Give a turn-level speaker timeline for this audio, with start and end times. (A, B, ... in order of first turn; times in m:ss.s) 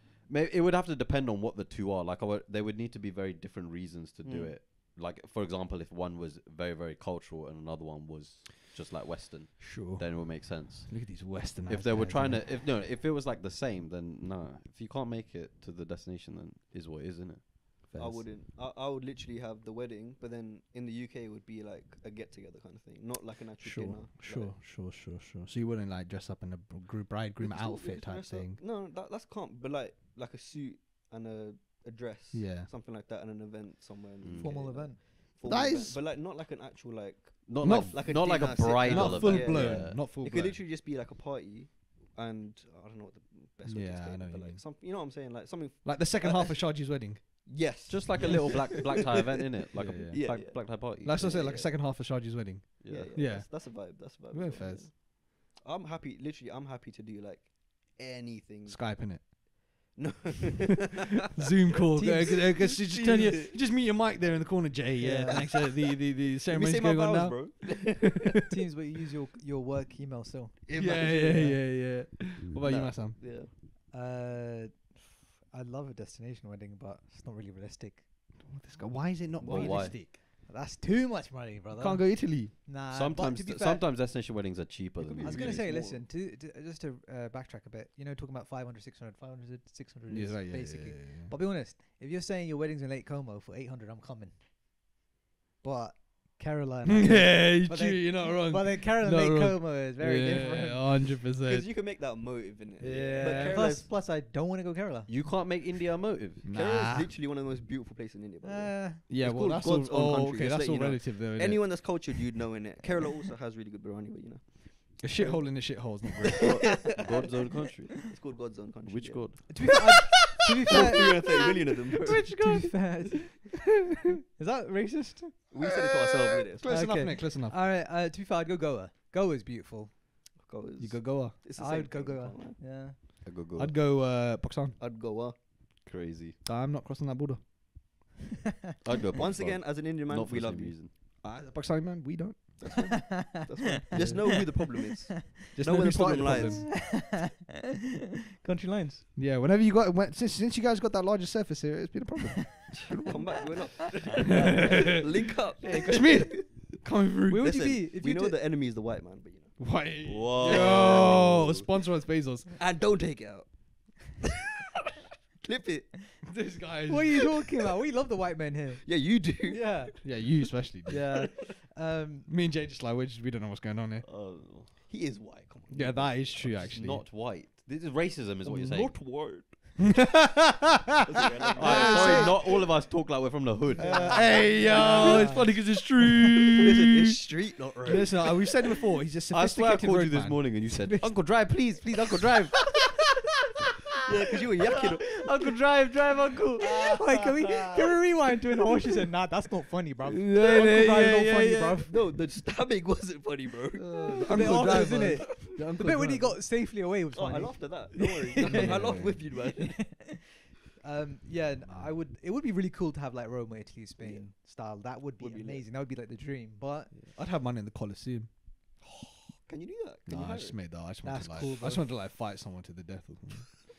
0:00.2-0:17.9 A
0:04.2-0:04.6 B
0:09.6-0:12.5 C
0:17.9-0:18.2 C
0:17.9-0:24.5 B
0:23.6-0:28.6 C
0:27.4-0:46.8 B
0:32.3-0:32.7 C
0:34.2-0:34.8 A
0:34.4-0:35.0 D
0:35.4-0:36.0 C
0:37.4-0:40.0 A
0:37.6-0:40.6 C
0:43.6-0:44.6 C
0:45.8-0:47.4 C
0:47.3-0:49.3 B
0:47.8-0:51.6 A
0:49.8-0:54.9 C
0:49.9-0:51.7 B
0:52.8-0:53.2 A
0:52.9-0:59.3 B
0:58.6-0:59.9 C
0:59.9-1:00.9 B
1:01.3-1:08.0 C
1:01.8-1:03.7 B
1:01.9-1:02.4 D
1:05.0-1:05.4 D
1:05.3-1:08.3 B
1:08.5-1:11.6 D
1:10.7-1:11.5 B
1:10.7-1:13.2 C
1:12.6-1:13.5 B
1:13.9-1:18.6 D
1:18.4-1:20.1 C
1:19.4-1:19.8 B
1:19.4-1:19.9 A
1:19.8-1:23.8 D
1:21.7-1:22.5 C
1:22.9-1:25.6 A
1:25.0-1:26.0 B
1:25.2-1:34.4 D
1:30.1-1:31.3 C
1:35.6-1:40.9 D
1:36.9-1:41.7 C
1:41.4-1:43.9 B
1:42.8-1:45.1 D
1:43.1-1:43.7 C
1:45.1-1:46.4 A
1:46.4-1:47.1 C
1:46.5-1:55.9 B
1:48.4-1:49.0 D
1:49.1-1:52.0 C
1:55.0-1:56.8 C
1:56.3-1:58.2 A
1:56.5-1:57.3 B
1:57.9-1:59.5 B
1:58.8-1:59.7 A
1:59.5-2:01.5 D
2:00.7-2:02.4 B
2:00.8-2:01.2 C
2:02.0-2:02.9 C
2:02.0-2:03.6 D
2:04.3-2:05.5 D
2:05.5-2:07.1 B
2:06.5-2:07.6 C
2:06.7-2:10.0 D
2:10.4-2:12.7 B
2:10.8-2:11.4 C
2:11.5-2:13.0 D
2:13.2-2:13.7 A
2:13.5-2:14.8 C
2:14.8-2:15.4 B
2:15.8-2:16.4 A
2:16.4-2:17.4 C
2:18.8-2:20.9 A
2:19.1-2:20.8 B
2:21.2-2:23.0 C
2:22.6-2:26.8 B
2:22.9-2:24.6 D
2:23.9-2:24.3 C
2:25.5-2:26.8 C
2:26.0-2:27.4 D
2:28.4-2:29.0 D
2:29.2-2:32.9 C
2:32.6-2:33.1 D
2:32.9-2:36.6 B
2:34.4-2:34.9 C
2:35.6-2:37.8 C
2:37.3-2:38.4 D
2:37.4-2:39.8 B
2:39.6-2:42.5 C
2:40.0-2:41.7 A
2:40.4-2:41.4 B
2:42.6-2:44.2 B
2:45.4-2:46.3 B
2:46.2-2:47.3 C
2:46.9-2:50.0 D
2:48.8-2:49.9 B
2:50.0-2:51.4 C
2:50.9-2:52.3 D
2:52.3-2:54.1 C
2:54.0-2:54.8 A
2:54.7-2:56.8 B
2:55.7-2:57.0 C
2:56.6-2:59.1 A
2:58.4-3:00.0 B
3:00.0-3:01.0 C
3:01.0-3:02.7 B
3:01.5-3:04.4 A
3:01.6-3:02.4 D
3:01.6-3:02.3 C
3:03.8-3:05.5 D
3:03.8-3:05.6 B
3:04.1-3:07.0 C
3:06.6-3:08.5 B
3:07.8-3:10.8 C
3:09.3-3:12.7 A
3:14.0-3:15.0 B
3:15.0-3:17.0 A
3:16.6-3:21.9 D
3:20.2-3:21.9 C
3:21.8-3:25.2 B
3:23.8-3:26.4 C
3:24.2-3:37.0 D
3:27.1-3:30.1 B
3:28.4-3:29.2 C
3:31.6-3:31.9 C
3:34.0-3:34.3 B
3:35.2-3:35.6 B
3:37.1-3:38.3 C
3:38.8-3:40.7 B
3:40.1-3:43.6 C
3:41.0-3:41.9 D